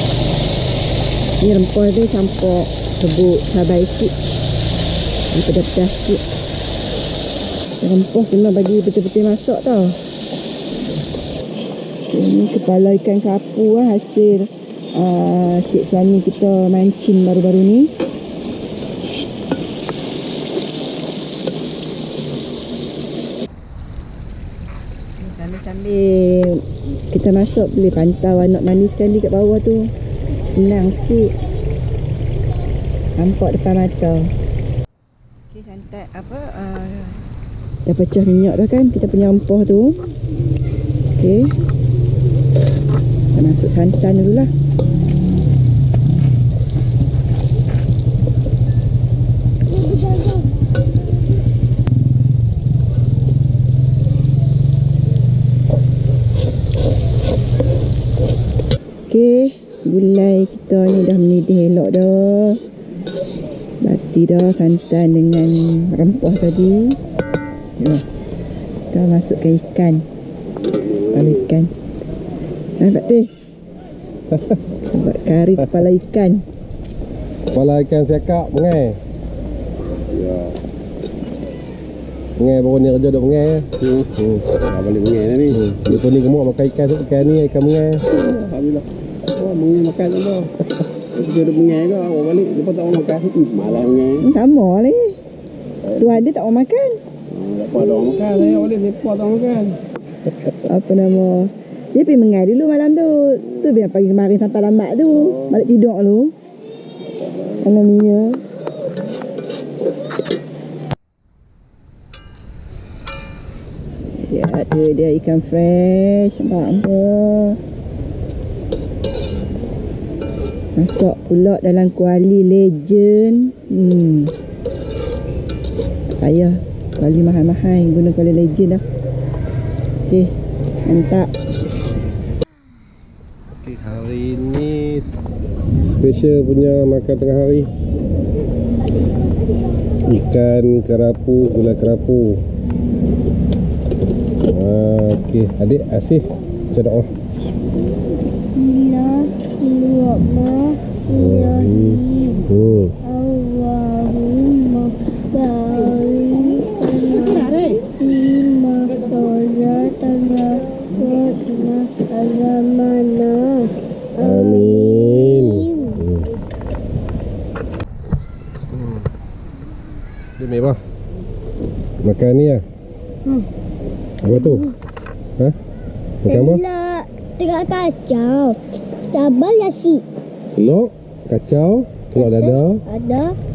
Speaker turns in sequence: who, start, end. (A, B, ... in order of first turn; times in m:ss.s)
0:01.4-0:04.2 A
0:05.3-0:06.2 A
0:07.8-0:10.0 A
0:12.1-0:17.9 A
0:25.2-0:29.9 A
0:30.5-0:31.4 A
0:33.2-0:34.3 A
0:35.5-0:37.3 A
0:37.9-0:40.0 A
0:41.2-0:41.5 A
0:43.4-0:44.5 A
0:49.7-0:50.8 B
0:59.1-1:02.6 A
1:03.8-1:07.0 A
1:07.8-1:08.0 A
1:08.9-1:10.0 A
1:10.7-1:11.4 C
1:11.1-1:11.7 A
1:12.8-1:13.3 A
1:14.3-1:14.6 D
1:14.9-1:16.4 A
1:17.5-1:19.0 D
1:20.1-1:20.5 C
1:22.4-1:24.4 D
1:23.8-1:25.6 C
1:25.5-1:28.0 D
1:28.1-1:30.5 C
1:31.1-1:34.3 C
1:34.2-1:35.2 A
1:36.0-1:37.0 A
1:37.3-1:39.8 C
1:40.6-1:46.3 A
1:47.6-1:48.4 A
1:54.2-1:57.6 A
2:00.8-2:04.3 A
2:06.2-2:08.8 A
2:10.9-2:11.3 A
2:13.5-2:15.1 D
2:15.8-2:17.7 D
2:20.0-2:22.4 D
2:24.4-2:27.1 D
2:28.6-2:32.4 B
2:31.1-2:32.9 D
2:33.0-2:46.0 B
2:44.2-2:46.3 D
2:48.7-2:49.1 D
2:50.4-2:50.8 D
2:52.0-2:52.6 D
2:54.2-2:54.7 D
2:54.4-2:54.7 B
2:56.2-2:56.6 D
2:56.3-2:58.6 B
2:59.1-3:00.0 B
3:00.5-3:02.8 D
3:02.2-3:03.4 B